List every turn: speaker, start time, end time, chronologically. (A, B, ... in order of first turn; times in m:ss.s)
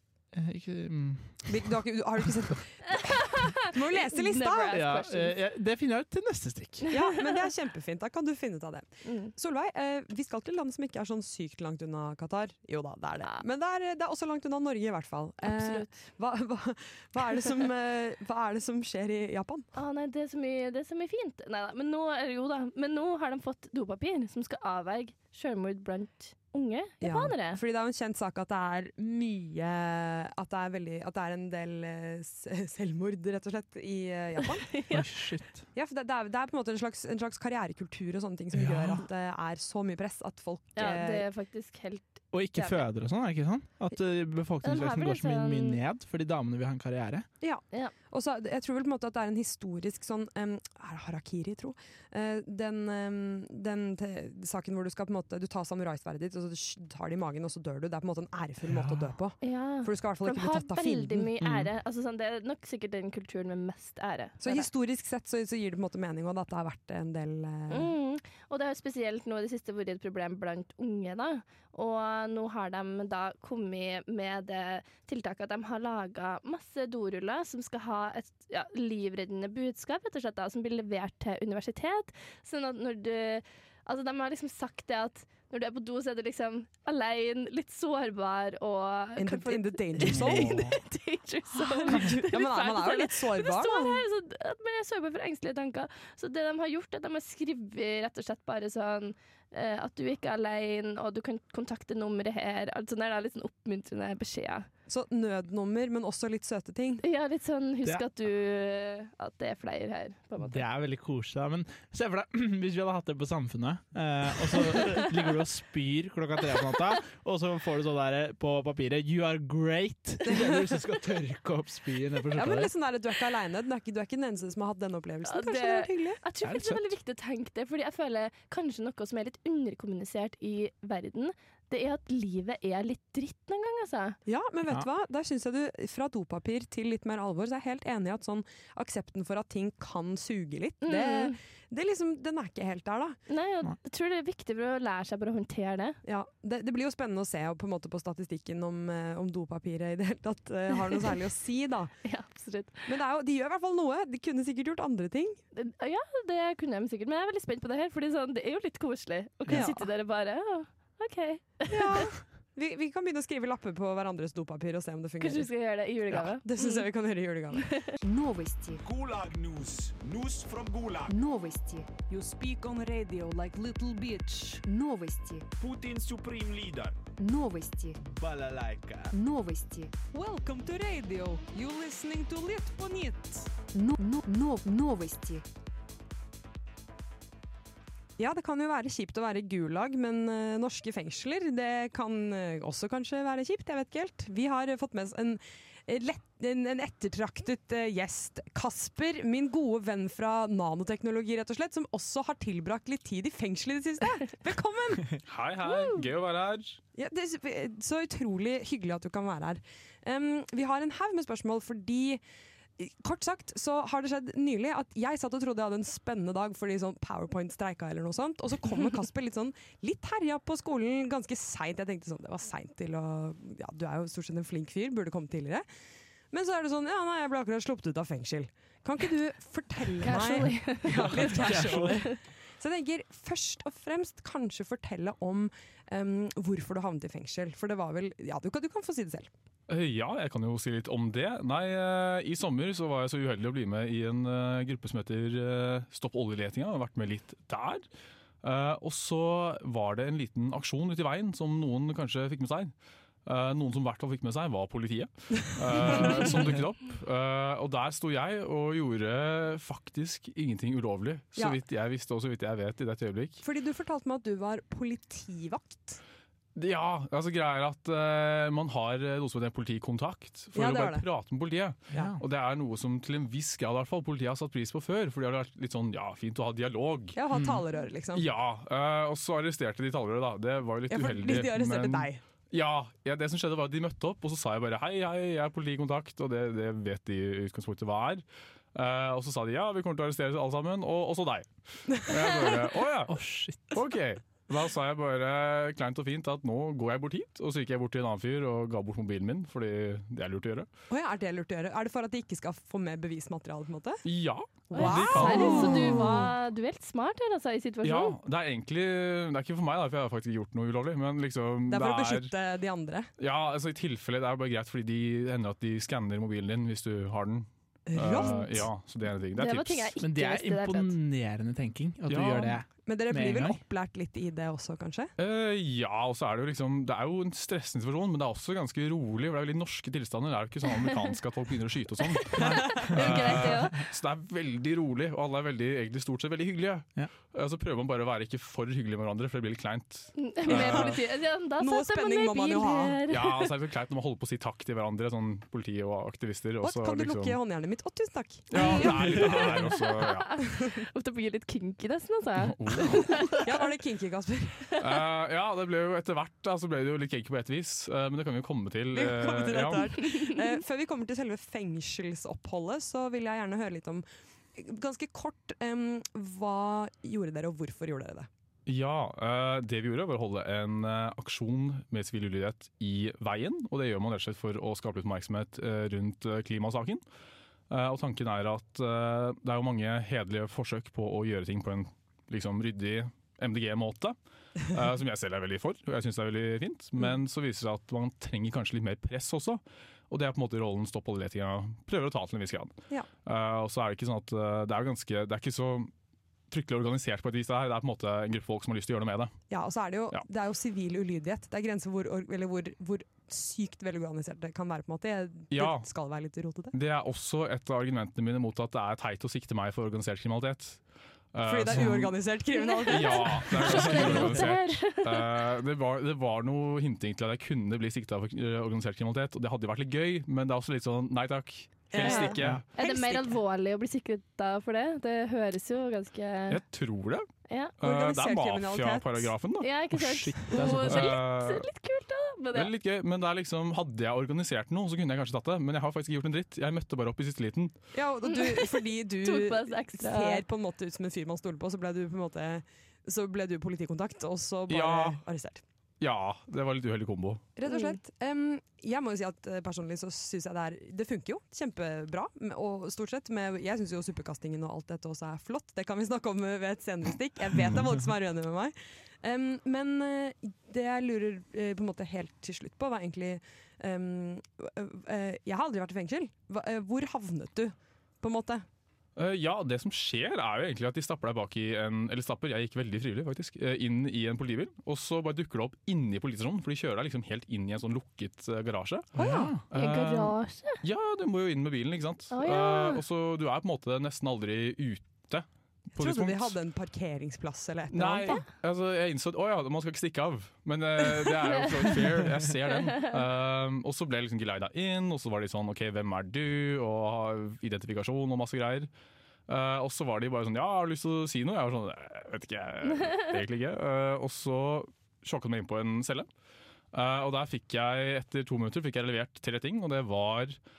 0:00.3-0:01.5 A
0:01.5-0:04.8 B
0:03.1-0:05.4 C
0:04.7-0:06.9 A
0:06.9-0:19.7 B
0:09.0-0:09.3 C
0:15.4-0:16.0 C
0:19.7-0:27.6 C
0:27.0-0:34.8 B
0:34.7-0:35.1 C
0:34.9-0:35.7 A
0:35.7-0:41.3 B
0:38.5-0:39.0 A
0:40.8-0:42.8 C
0:42.3-0:47.3 A
0:44.6-0:45.8 C
0:47.4-1:01.3 B
0:58.7-0:59.0 A
0:59.4-1:04.7 C
1:01.4-1:01.7 A
1:04.4-1:07.9 B
1:07.7-1:44.7 C
1:29.2-1:30.6 B
1:30.0-1:30.8 A
1:31.5-1:34.0 B
1:44.9-1:47.0 B
1:47.0-1:50.6 C
1:50.4-2:02.7 A
1:54.8-1:55.1 C
2:00.3-2:00.7 B
2:02.3-2:06.2 B
2:05.2-2:14.2 C
2:06.4-2:06.9 A
2:14.3-2:23.2 B
2:20.8-2:21.4 C
2:23.3-2:26.0 C
2:26.0-2:31.9 B
2:32.0-2:32.9 C
2:32.9-2:35.4 B
2:35.6-2:42.1 C
2:39.5-2:39.8 B
2:41.7-2:45.5 B
2:45.2-2:46.8 C
2:46.1-2:47.8 B
2:47.6-2:47.9 C
2:48.0-2:48.8 D
2:48.8-2:51.1 E
2:51.1-2:52.0 D
2:52.1-2:54.6 F
2:54.6-2:55.5 D
2:55.6-2:57.0 E
2:57.2-2:58.0 D
2:58.0-2:59.1 E
2:59.1-2:59.9 D
3:00.1-3:03.5 B
3:03.7-3:05.4 D
3:08.2-3:25.2 B
3:25.2-3:26.8 G
3:25.7-3:26.0 C
3:27.0-3:32.2 B
3:32.8-3:45.7 B
3:46.3-3:59.3 B
3:50.0-3:52.2 C
3:50.9-3:52.0 A
3:59.7-4:07.9 G
4:08.4-4:12.7 G
4:13.3-4:23.4 G
4:15.7-4:16.5 B
4:23.4-4:26.0 B
4:26.6-4:37.2 G
4:30.6-4:31.0 B
4:31.9-4:32.2 A
4:37.2-4:38.2 B
4:37.3-4:37.6 A
4:38.1-4:53.1 G
4:40.9-4:42.2 B
4:53.1-4:53.8 A
4:53.7-5:00.7 G
5:00.9-5:04.0 B
5:04.0-5:06.3 G
5:04.7-5:06.3 B
5:04.7-5:08.2 C
5:07.8-5:12.3 G
5:11.7-5:13.1 B
5:13.2-5:19.9 G
5:17.9-5:18.7 B
5:18.1-5:18.5 C
5:19.4-5:21.0 C
5:20.0-5:23.6 A
5:22.1-5:22.6 G
5:22.8-5:25.1 B
5:25.2-5:41.0 G
5:32.2-5:33.8 C
5:32.4-5:33.6 A
5:40.2-5:43.5 C
5:40.5-5:40.9 B
5:41.6-5:43.0 B
5:43.1-5:47.4 G
5:46.6-5:49.7 B
5:48.5-5:50.3 G
5:48.5-5:53.7 C
5:52.5-5:53.2 G
5:53.4-5:54.7 B
5:54.8-6:00.0 G
5:58.9-6:04.0 B
6:04.6-6:08.3 B
6:08.7-6:17.0 G
6:17.7-6:24.2 G
6:24.7-6:32.7 G
6:33.2-6:35.9 G
6:36.5-6:39.3 G
6:39.5-6:46.7 B
6:45.5-6:45.9 G
6:46.7-6:50.8 G
6:51.3-6:52.2 G
6:51.4-6:54.5 B
6:52.6-6:55.4 C
6:52.9-7:02.6 G
7:01.9-7:03.4 B
7:02.0-7:02.7 A
7:02.0-7:06.6 C
7:06.5-7:07.3 G
7:07.5-7:07.8 C
7:07.8-7:09.7 G
7:07.8-7:09.3 B
7:09.6-7:12.7 C
7:09.9-7:11.2 A
7:10.8-7:11.7 G
7:12.5-7:17.7 G
7:17.9-7:25.6 B
7:18.3-7:20.4 C
7:24.7-7:25.2 G
7:26.0-7:27.4 G
7:27.6-7:48.6 B
7:27.7-7:28.0 C
7:49.2-7:59.1 G
7:59.2-7:59.5 B
7:59.2-7:59.6 A
7:59.7-8:06.6 G
7:59.7-8:00.8 C
8:02.3-8:03.0 C
8:06.0-8:08.4 B
8:07.9-8:18.9 G
8:11.5-8:13.2 C
8:19.5-8:26.3 G
8:26.9-8:30.6 G